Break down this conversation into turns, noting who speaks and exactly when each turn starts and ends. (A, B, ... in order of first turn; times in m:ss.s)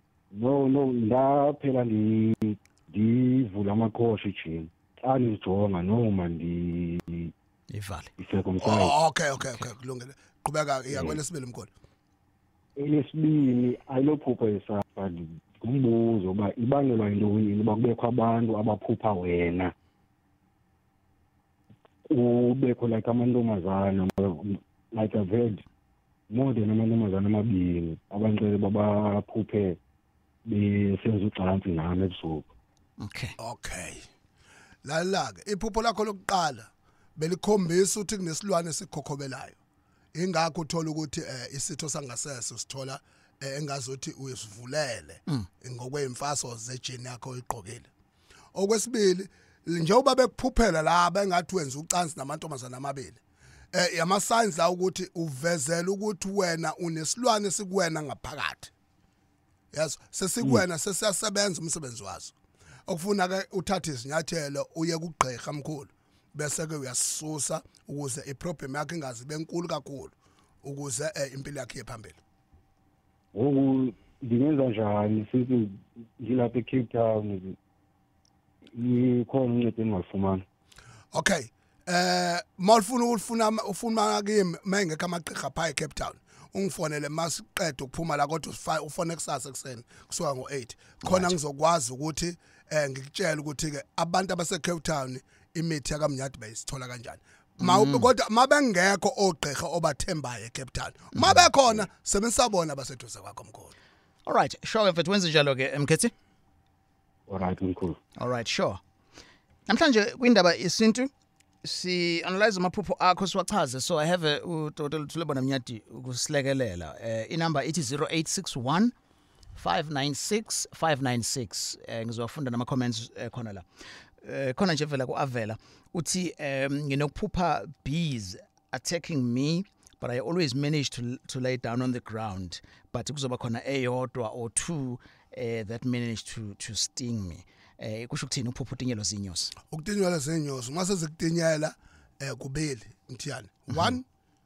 0:00.3-0:07.3 A
0:07.7-0:08.1 B
0:08.2-0:08.9 A
0:08.6-0:11.7 C
0:12.8-0:19.7 A
0:22.1-0:25.6 A
0:26.3-0:29.8 A
0:30.4-0:32.5 A
0:33.0-0:33.3 B
0:33.4-0:34.1 C
0:34.8-0:39.6 C
0:40.1-0:47.9 C
0:48.5-0:53.2 C
0:53.7-0:58.7 C
0:59.7-1:02.3 C
1:02.9-1:12.2 C
1:13.3-1:17.6 A
1:18.7-1:20.4 A
1:21.1-1:43.7 C
1:31.0-1:31.3 B
1:37.6-1:38.1 B
1:41.2-1:41.4 B
1:44.2-1:46.1 B
1:47.3-1:48.0 A
1:48.2-1:48.8 B
1:49.7-1:51.1 B
1:51.6-1:58.9 B
1:59.6-2:03.6 B
2:04.2-2:19.5 B
2:19.7-2:24.0 C